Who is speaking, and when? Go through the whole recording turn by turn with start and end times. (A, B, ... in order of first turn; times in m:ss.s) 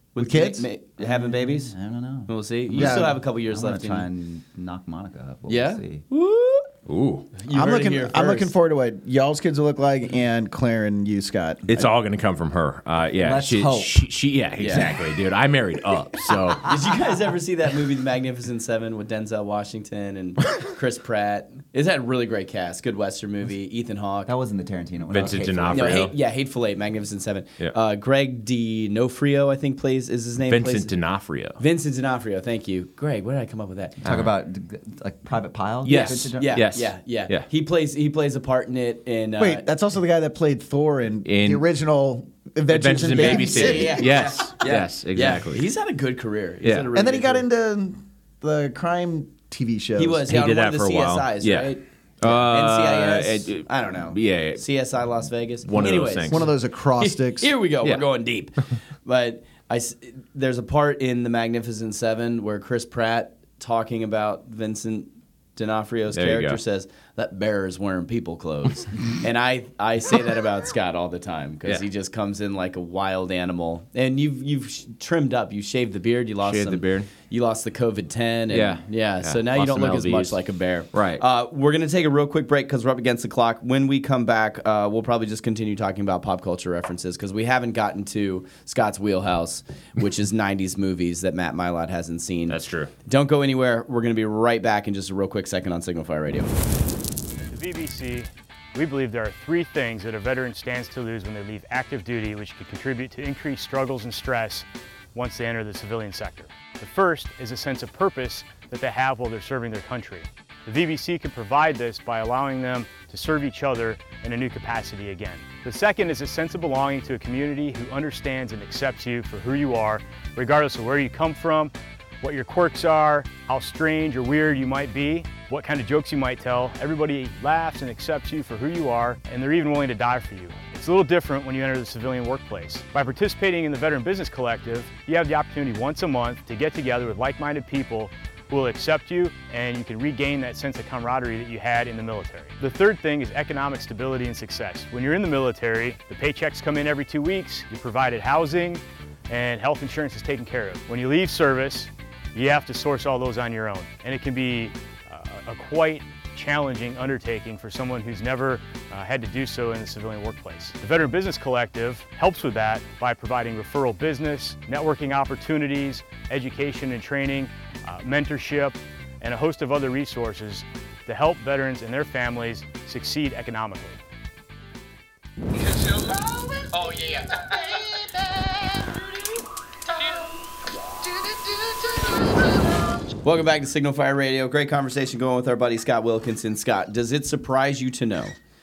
0:00.1-0:01.7 A
0:00.2-0:00.6 B
0:01.0-0:06.0 C
0:02.3-0:04.1 A
0:02.8-0:03.2 B
0:05.5-0:06.7 A
0:06.9-0:07.3 D
0:07.4-0:08.5 A
0:07.5-0:11.7 B
0:11.7-0:16.7 D
0:13.2-0:14.0 C
0:14.6-0:14.9 A
0:16.6-0:24.3 A
0:24.2-0:26.1 C
0:25.1-0:26.1 D
0:25.7-0:30.9 A
0:30.4-0:31.6 D
0:31.6-0:34.0 A
0:34.0-0:36.6 C
0:34.0-0:34.3 D
0:35.8-0:37.4 D
0:35.8-0:39.6 A
0:39.4-0:44.3 B
0:41.2-0:41.6 D
0:42.7-0:45.6 D
0:43.2-0:47.4 A
0:46.9-0:50.2 B
0:50.0-1:36.5 A
0:50.3-0:54.6 D
0:55.6-0:56.5 D
0:56.3-0:57.5 B
1:06.1-1:06.6 D
1:16.4-1:17.1 D
1:18.5-1:20.4 D
1:20.9-1:21.2 D
1:32.5-1:32.9 D
1:37.5-2:54.0 E
2:55.9-2:57.8 A
3:03.0-3:08.4 A